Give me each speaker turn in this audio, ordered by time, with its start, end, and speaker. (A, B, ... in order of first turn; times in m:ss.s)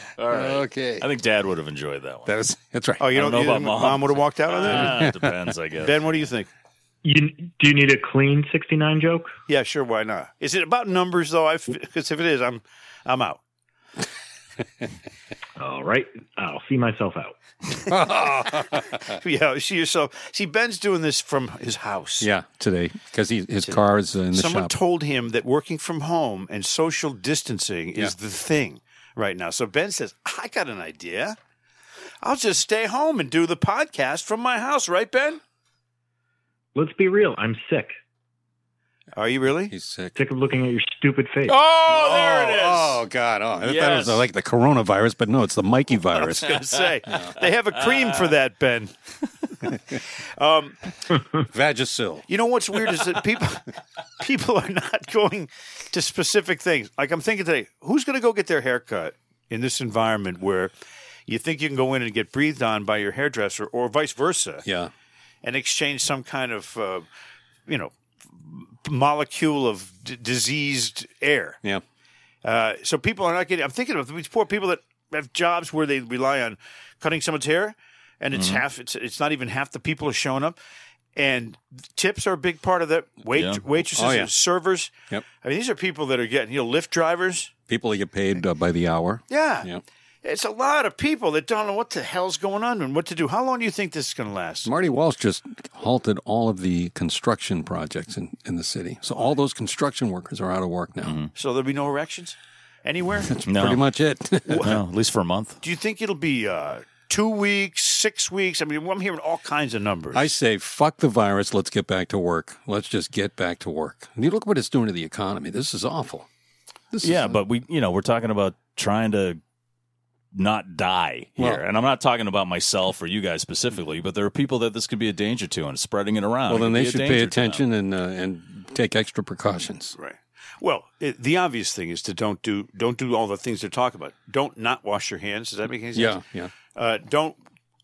0:00.2-0:02.3 A
0:00.3-0:01.1 B
0:02.3-0:03.1 B
0:03.0-0:05.1 C
0:03.1-0:06.0 A
0:04.8-0:05.2 B
0:05.8-0:06.5 C
0:07.0-0:09.3 D
0:09.5-0:13.4 C
0:15.6-0:17.3 D
0:17.9-0:19.1 B
0:19.0-0:22.3 C
0:22.2-0:24.7 B
0:23.6-0:31.4 C
0:32.2-0:35.4 C
0:36.8-0:38.0 D
0:39.2-0:39.7 C
0:39.7-0:40.2 B
0:40.2-0:41.6 D
0:41.5-0:43.0 A
0:41.9-0:47.3 B
0:43.6-0:44.2 A
0:46.2-0:48.9 C
0:49.6-0:50.9 C
0:51.4-0:52.2 B
0:52.3-0:53.7 C
0:54.2-1:00.7 C
1:01.3-1:04.7 C
1:04.6-1:04.9 B
1:05.4-1:07.0 C
1:07.7-1:11.6 C
1:12.4-1:20.6 C
1:18.3-1:18.6 A
1:21.2-1:27.5 C
1:23.3-1:23.6 A
1:24.0-1:24.3 B
1:27.7-1:29.8 B
1:29.3-1:29.7 C
1:30.2-1:34.7 C
1:34.7-1:41.2 B
1:41.0-1:41.3 A
1:41.4-1:43.4 C
1:43.3-1:44.8 B
1:43.5-1:43.8 A
1:44.5-1:44.7 C
1:44.6-1:45.6 A
1:45.6-1:50.3 C
1:50.1-1:56.3 B
1:56.9-1:57.4 B
1:57.0-1:59.4 A
2:00.3-2:07.7 A
2:06.5-2:10.0 B
2:10.0-2:16.2 C
2:16.0-2:16.5 B
2:16.8-2:17.4 C